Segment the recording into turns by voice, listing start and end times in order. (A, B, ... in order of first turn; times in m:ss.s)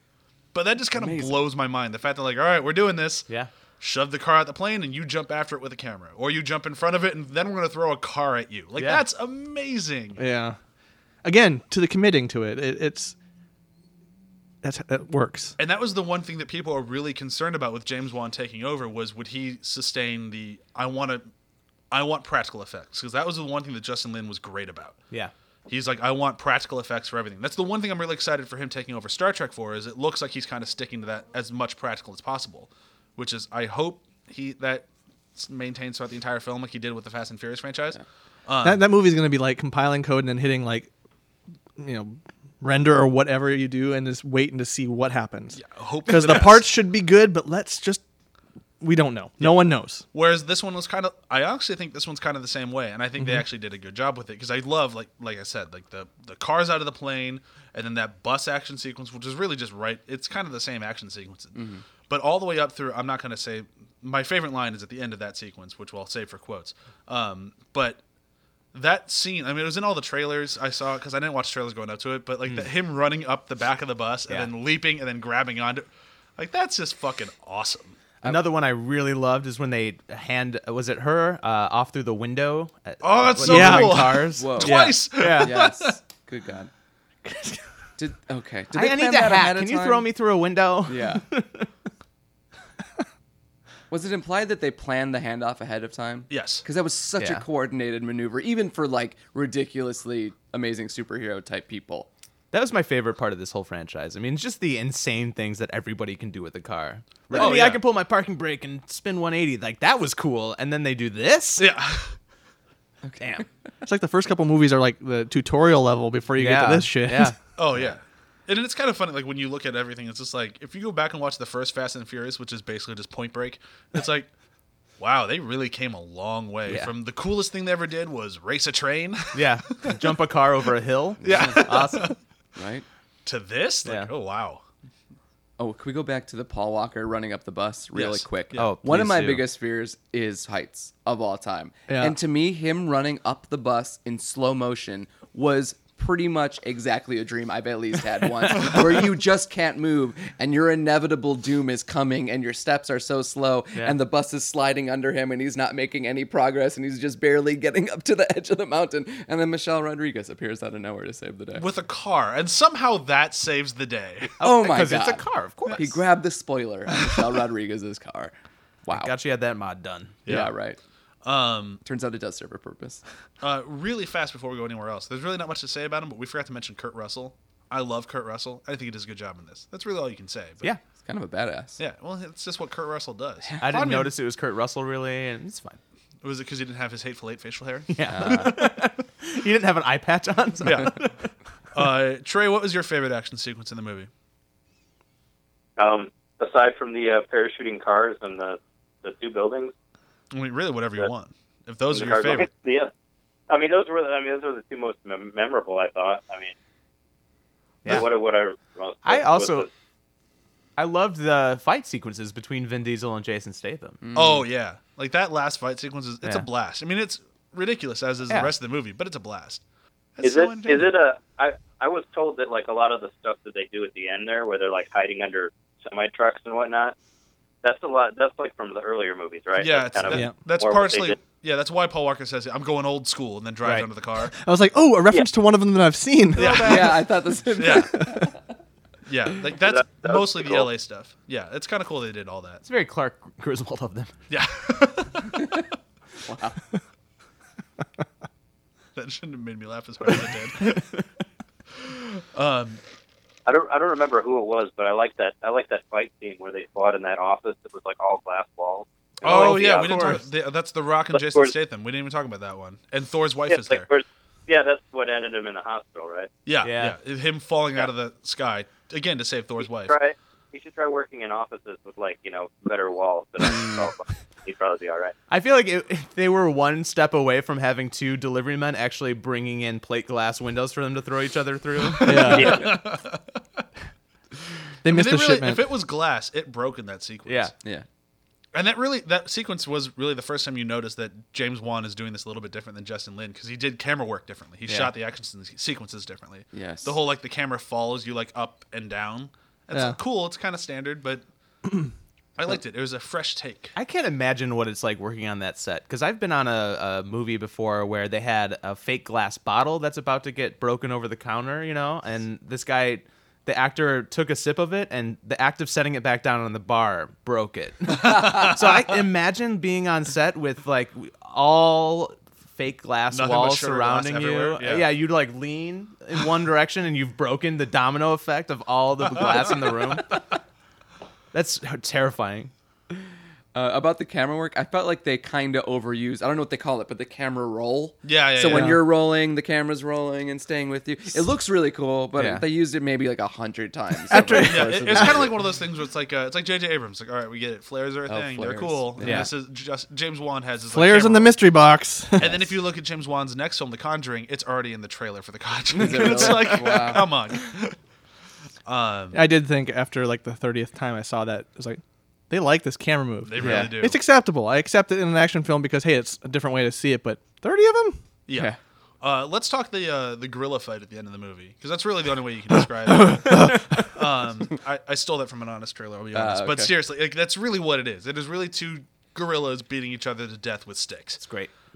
0:00.5-0:03.3 A
0:01.0-0:01.4 B
0:03.8-0:10.2 A
0:08.8-0:09.0 C
0:10.2-0:10.6 D
0:11.2-0:13.1 D
0:14.6-0:15.6 D
0:15.6-0:21.3 A
0:21.9-0:25.0 A
0:25.7-0:38.8 A
0:38.6-0:40.9 D
0:41.8-0:48.0 D
0:45.5-0:46.7 A
0:48.8-0:50.0 D
0:49.4-1:08.0 A
1:01.5-1:01.8 B
1:08.7-1:15.8 A
1:16.4-1:18.0 A
1:18.2-1:25.6 C
1:23.0-1:26.0 A
1:23.4-1:24.9 D
1:24.4-1:26.7 B
1:27.3-1:27.6 D
1:28.0-1:30.1 B
1:28.7-1:31.7 C
1:30.8-1:31.2 B
1:33.9-1:42.1 B
1:36.3-1:36.6 A
1:37.2-1:37.4 C
1:42.5-1:51.7 C
1:47.3-1:47.8 A
1:51.6-1:52.1 A
1:53.0-1:53.4 B
1:53.2-1:53.4 C
1:53.8-1:57.3 D
1:56.4-1:57.4 C
1:57.6-2:04.3 A
1:57.7-1:58.0 B
2:05.0-2:10.0 A
2:06.6-2:06.9 C
2:09.3-2:12.1 C
2:11.2-2:12.2 A
2:11.2-2:11.7 B
2:12.6-2:12.8 B
2:13.2-2:14.6 A
2:13.8-2:14.1 C
2:15.6-2:41.6 B
2:17.9-2:18.7 A
2:18.5-2:19.4 C
2:21.9-2:22.2 D
2:41.5-2:44.4 A
2:44.4-2:48.3 B
2:44.4-2:46.0 C
2:48.8-2:49.1 B
2:48.9-2:50.2 C
2:50.2-2:50.5 A
2:50.2-2:50.8 B
2:51.2-2:51.8 A
2:51.8-2:53.0 B
2:53.4-3:00.7 A
3:01.0-3:01.8 B
3:01.8-3:04.1 A
3:03.6-3:05.8 C
3:06.2-3:08.5 A
3:07.9-3:11.3 C
3:08.1-3:08.7 B
3:10.6-3:11.1 A
3:11.7-3:14.1 A
3:15.8-3:19.7 E
3:20.3-3:22.5 A
3:21.9-3:22.9 E
3:23.5-3:26.5 E
3:27.8-3:29.7 E
3:29.0-3:29.7 C
3:30.8-3:34.0 C
3:34.0-3:34.4 B
3:34.1-3:39.6 A
3:38.3-3:38.5 C
3:40.2-3:40.9 A
3:40.2-3:46.9 E
3:47.6-3:51.2 E
3:49.6-3:54.3 A
3:54.4-3:56.9 D
3:56.3-3:57.0 C
3:56.4-3:57.0 A
3:56.6-3:58.3 B
3:57.6-3:58.0 A
3:57.7-3:58.2 D
3:59.0-4:02.6 A
3:59.6-4:00.7 E
4:02.6-4:04.1 C
4:04.3-4:05.6 A
4:06.2-4:06.6 B
4:09.0-4:10.8 A
4:11.8-4:12.8 A
4:13.4-4:20.2 E
4:19.2-4:23.9 A
4:19.2-4:20.2 C
4:21.1-4:21.5 E
4:23.5-4:26.3 E
4:26.4-4:29.9 A
4:26.6-4:27.0 C
4:29.6-4:35.1 E
4:33.6-4:33.8 B
4:35.3-4:42.5 C
4:41.9-4:43.6 A
4:42.0-4:42.7 D
4:42.3-4:42.7 E
4:44.8-4:45.6 D
4:44.8-4:47.5 A
4:47.2-4:47.5 C
4:48.5-5:01.2 A
4:56.5-4:57.0 B
4:59.7-5:00.0 D
5:02.4-5:03.7 A
5:03.7-5:30.2 C
5:18.0-5:18.5 A
5:23.1-5:24.9 A
5:29.1-5:29.6 A
5:31.3-5:32.5 C
5:33.5-5:45.3 B
5:38.0-5:38.8 A
5:42.2-5:42.4 C
5:44.1-5:45.3 D
5:44.3-5:51.4 A
5:48.1-5:49.3 B
5:49.0-5:49.3 C
5:50.7-5:52.4 D
5:52.2-5:57.8 A
5:52.2-5:52.5 B
5:55.7-5:57.1 B
5:58.6-5:59.3 A
5:59.1-6:08.0 D
6:03.2-6:04.0 A
6:03.4-6:03.7 B
6:08.3-6:21.2 A
6:08.3-6:08.6 B
6:12.8-6:14.0 D
6:16.1-6:16.7 B
6:21.2-6:21.5 C